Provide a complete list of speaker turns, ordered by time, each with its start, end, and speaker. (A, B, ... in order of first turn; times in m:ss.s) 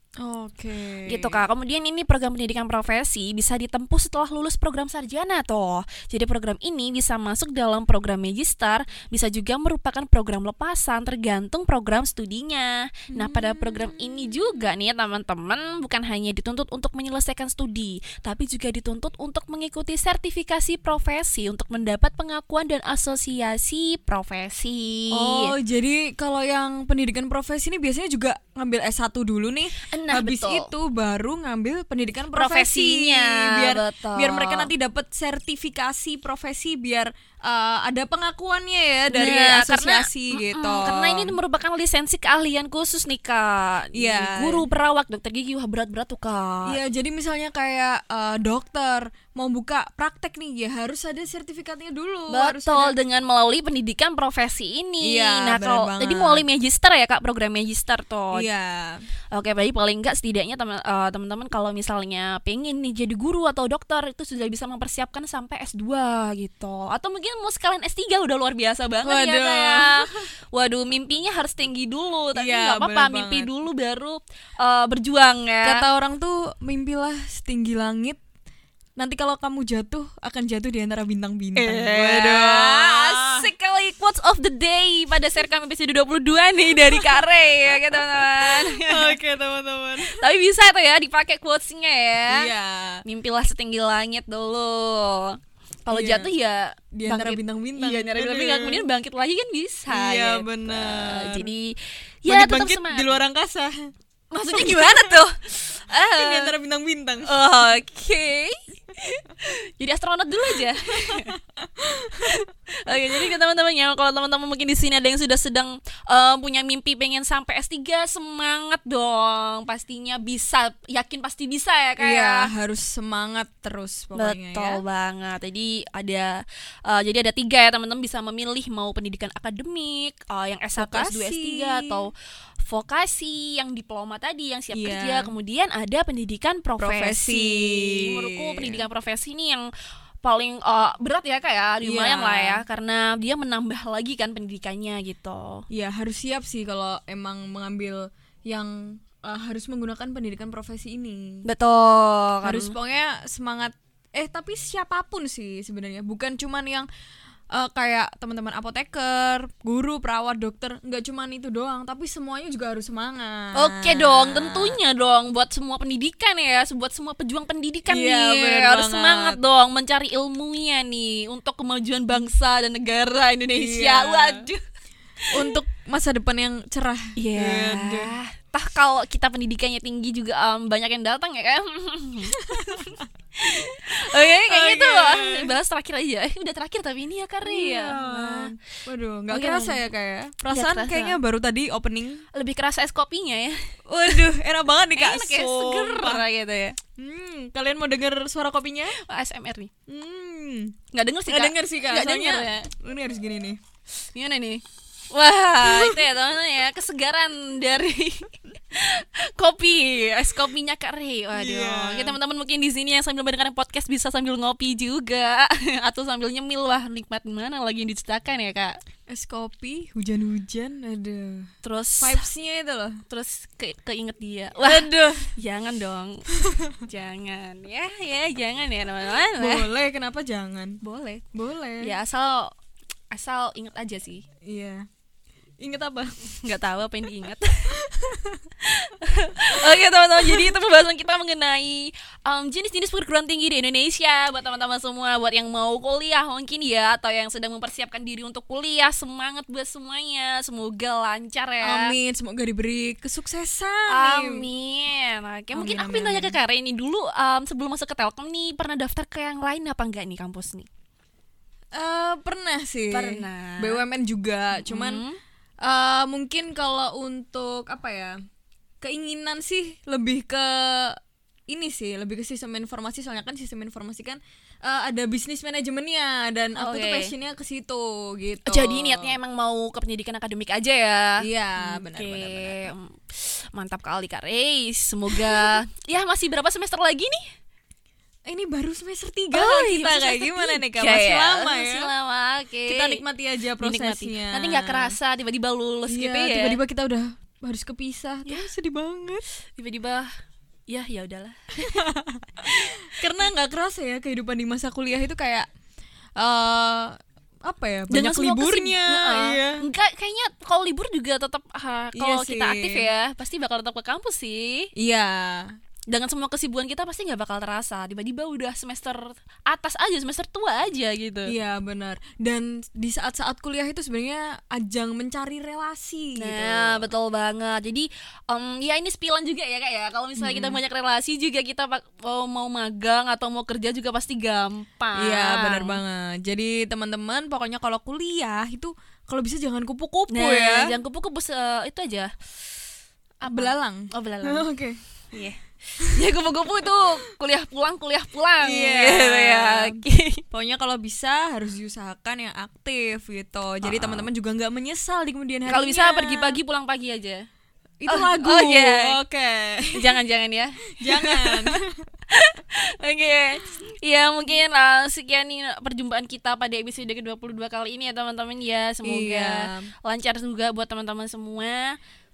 0:00.2-0:01.4 A
0:01.1-0:25.5 B
0:13.1-0:14.6 A
0:25.1-0:41.4 A
0:29.8-0:30.7 B
0:32.3-0:34.7 B
0:39.1-0:46.8 B
0:43.9-0:44.7 A
0:46.6-0:53.0 A
0:52.3-0:58.5 B
0:55.0-0:56.4 A
0:58.3-0:59.0 A
0:59.3-1:15.8 B
1:09.0-1:10.2 A
1:12.3-1:13.5 A
1:15.6-1:18.2 A
1:19.0-1:23.4 A
1:21.6-1:29.2 B
1:26.9-1:27.2 A
1:28.2-1:30.2 A
1:30.1-1:32.5 B
1:32.3-1:33.0 A
1:33.0-1:43.2 B
1:35.9-1:36.3 A
1:36.9-1:38.9 A
1:39.9-1:41.5 A
1:42.2-1:43.7 A
1:44.3-1:46.5 B
1:44.5-1:45.2 A
1:46.1-1:47.4 A
1:47.2-1:51.3 B
1:51.3-1:52.4 A
1:52.2-2:02.5 B
2:02.0-2:04.8 A
2:04.1-2:19.7 B
2:10.8-2:12.1 A
2:14.7-2:15.3 A
2:16.8-2:18.8 A
2:20.2-2:25.6 B
2:21.8-2:22.6 A
2:25.7-2:31.4 A
2:31.4-2:32.8 B
2:32.4-2:36.9 A
2:37.5-2:44.8 A
2:43.5-2:54.6 B
2:47.9-2:49.4 A
2:53.6-2:54.5 A
2:55.3-2:58.1 A
2:57.2-3:08.5 B
3:04.3-3:05.5 A
3:07.4-3:12.2 A
3:09.3-3:09.8 B
3:10.5-3:11.2 B
3:12.3-3:14.2 B
3:13.9-3:16.2 A
3:14.9-3:16.8 B
3:17.0-3:19.0 A
3:18.9-3:19.7 B
3:19.9-3:20.8 A
3:20.9-3:22.7 B
3:21.3-3:23.6 A
3:24.1-3:38.8 B
3:25.6-3:26.0 A
3:31.3-3:32.2 A
3:39.1-3:43.0 A
3:41.6-3:42.2 B
3:43.1-3:46.2 B
3:44.6-3:45.3 A
3:46.4-3:46.7 A
3:46.8-3:49.7 B
3:49.4-3:50.8 A
3:50.8-3:51.2 B
3:51.3-3:51.9 A
3:51.8-3:52.5 B
3:53.1-3:54.2 B
3:54.4-3:54.9 A
3:55.6-3:56.2 A
3:56.3-3:57.8 B
3:57.8-3:58.4 A
3:58.6-4:12.0 B
4:11.6-4:14.5 A
4:13.9-4:20.7 B
4:15.5-4:16.4 A
4:21.7-4:25.0 A
4:22.9-4:23.8 B
4:24.5-4:25.2 B
4:25.6-4:28.2 A
4:28.8-4:39.2 A
4:36.6-4:37.1 B
4:38.5-4:47.2 B
4:41.2-4:42.7 A
4:48.2-4:51.9 A
4:49.3-4:53.0 B
4:52.6-4:55.0 A
4:53.6-4:56.6 B
4:55.9-4:59.2 A
4:59.6-5:00.1 B
5:00.7-5:01.4 B
5:01.6-5:02.2 A
5:02.4-5:02.8 B
5:03.0-5:05.4 A
5:06.2-5:09.7 A
5:07.9-5:14.7 B
5:11.9-5:12.9 A
5:14.8-5:15.5 A
5:15.9-5:21.3 B
5:21.2-5:26.9 A
5:26.2-5:35.8 B
5:30.2-5:30.6 A
5:35.0-5:40.7 A
5:40.1-5:42.1 B
5:43.2-5:44.4 B
5:43.2-5:44.8 A
5:45.1-5:45.4 B
5:45.9-5:50.2 B
5:48.4-5:56.4 A
5:53.6-5:54.1 B
5:55.5-5:57.2 B
5:57.8-5:59.9 A
5:57.9-5:59.0 B
5:59.8-6:01.5 B
6:00.8-6:01.7 A
6:02.1-6:11.8 B
6:08.8-6:09.7 A